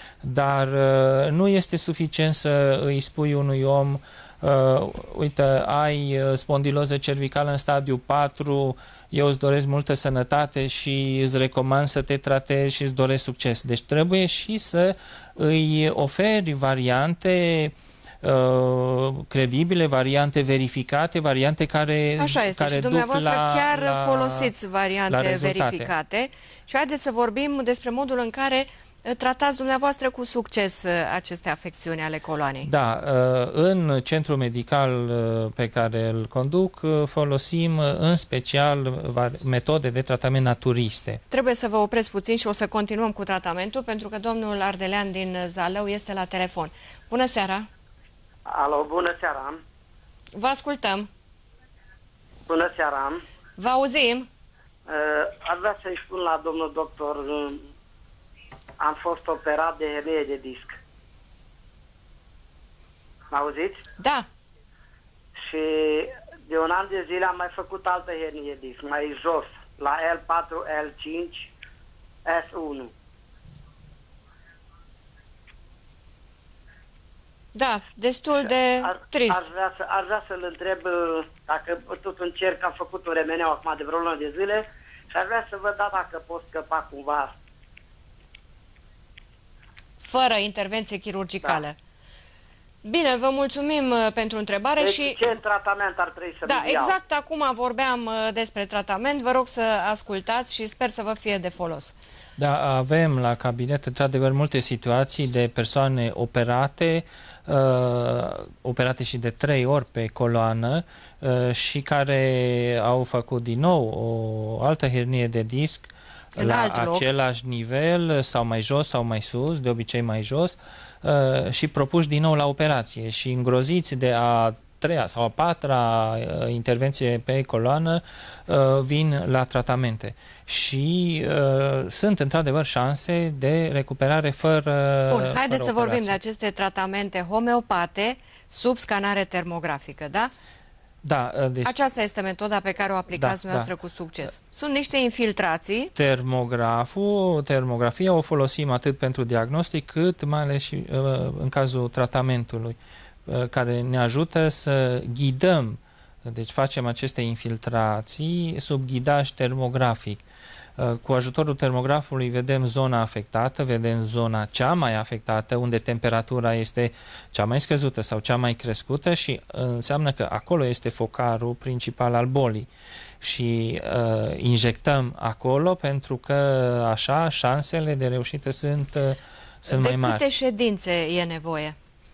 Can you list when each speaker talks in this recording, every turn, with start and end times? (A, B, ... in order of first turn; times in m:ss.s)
0:00.2-0:24.5 A
0:22.2-0:32.7 B
0:25.1-0:25.9 A
0:32.6-0:41.2 A
0:41.3-0:47.7 B
0:48.4-0:49.6 C
0:50.3-0:51.1 B
0:52.5-0:53.2 C
0:53.6-0:54.3 B
0:54.9-0:57.7 C
0:58.8-1:00.8 C
1:03.3-1:03.8 C
1:04.0-1:04.3 B
1:05.4-1:11.5 C
1:12.2-1:12.9 C
1:17.5-1:19.4 B
1:18.8-1:27.4 C
1:30.0-1:31.8 B
1:32.8-1:35.4 B
1:34.8-1:37.0 C
1:36.4-1:41.9 B
1:42.4-2:16.2 A
1:56.4-1:57.0 B
2:15.1-2:20.3 B
2:21.0-2:21.7 A
2:21.6-2:25.9 B
2:23.1-2:23.7 A
2:25.9-2:40.2 A
2:40.8-2:52.7 A
2:53.2-3:00.2 A
2:59.7-3:01.8 B